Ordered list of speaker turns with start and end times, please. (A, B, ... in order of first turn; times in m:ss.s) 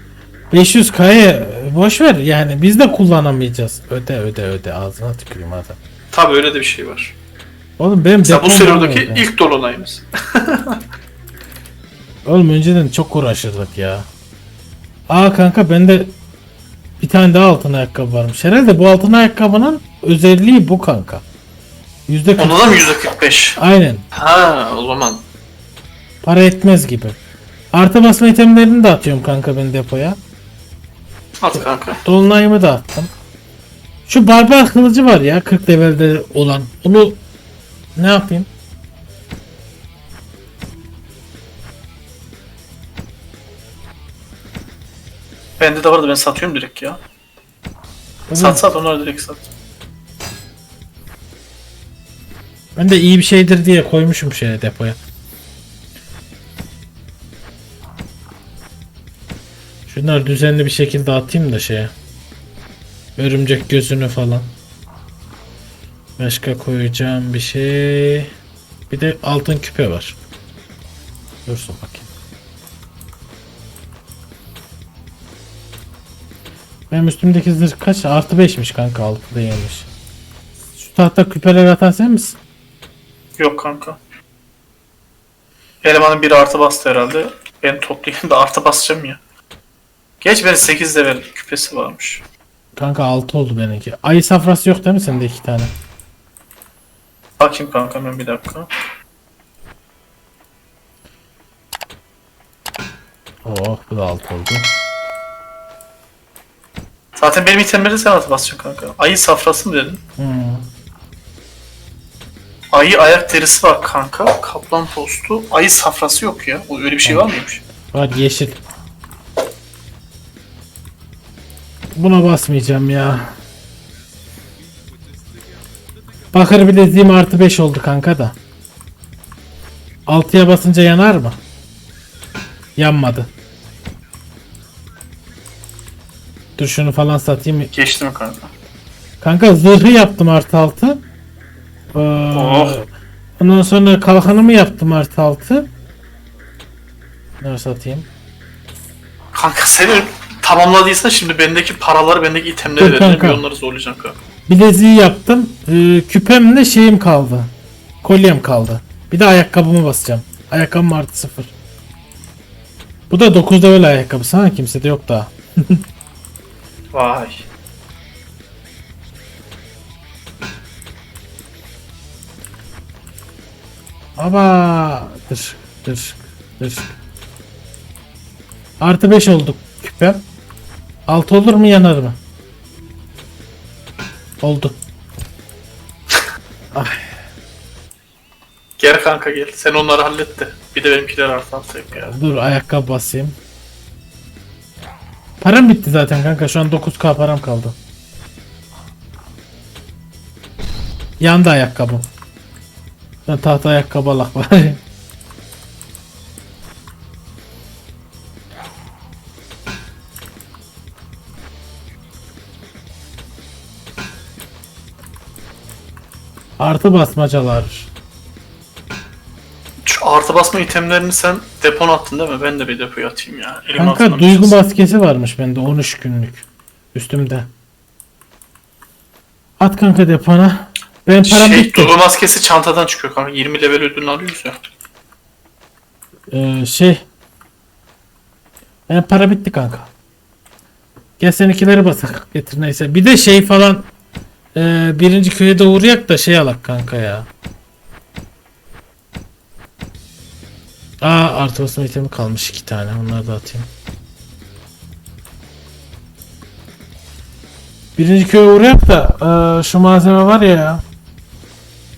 0:00.5-0:05.8 A
0:06.1-0:07.2 B
0:07.8-0:09.3 A
0:08.2-0:10.8 B
0:12.3-0:14.1 A
0:15.1-0:16.1 A
0:17.0-0:21.2 A
0:22.1-0:22.8 A
0:22.4-0:23.6 B
0:23.6-0:24.0 A
0:24.1-0:25.2 B
0:26.2-0:27.2 A
0:27.7-0:30.2 A
0:31.4-0:32.0 B
0:31.5-0:33.1 A
0:34.1-0:37.2 A
0:38.0-0:38.5 A
0:45.6-0:47.0 B
0:48.3-0:48.6 A
0:48.4-0:49.5 B
0:52.8-0:55.0 A
0:59.9-1:01.9 A
1:03.2-1:04.5 A
1:06.2-1:08.3 A
1:08.9-1:10.2 A
1:11.5-1:12.1 A
1:16.9-1:19.9 A
1:20.8-1:22.4 A
1:23.4-1:24.0 B
1:25.8-1:29.2 B
1:30.2-1:32.2 B
1:32.8-1:35.7 A
1:37.4-1:38.7 B
1:43.4-1:44.7 A
1:47.2-1:50.0 B
1:50.2-1:50.7 A
1:52.7-1:57.6 B
1:57.9-1:58.6 A
2:02.0-2:03.4 A
2:06.3-2:08.4 A
2:10.1-2:11.4 A
2:12.8-2:13.3 A
2:16.6-2:17.7 A
2:17.7-2:18.5 B
2:19.2-2:21.0 A
2:21.9-2:22.9 A
2:22.3-2:22.8 B
2:23.4-2:25.7 A
2:27.4-2:28.1 A
2:29.3-2:34.2 B
2:32.7-2:33.4 A
2:34.5-2:37.5 A
2:38.0-2:41.5 A
2:43.1-2:45.8 A
2:46.9-2:47.4 B
2:54.2-2:56.9 A
2:58.8-3:00.2 A
3:01.1-3:02.2 A
3:04.4-3:04.8 A
3:06.7-3:07.1 A
3:08.8-3:12.1 B
3:12.0-3:13.4 A
3:15.4-3:17.8 A
3:21.2-3:22.1 A
3:23.3-3:24.8 A
3:36.6-3:37.9 A
3:39.8-3:44.6 B
3:43.8-3:47.5 A
3:49.6-3:52.0 A
3:51.2-3:54.6 B
3:56.3-3:57.0 A
3:58.9-3:59.9 A
4:01.2-4:03.9 A
4:04.6-4:07.3 A
4:11.0-4:13.7 A
4:18.0-4:20.8 A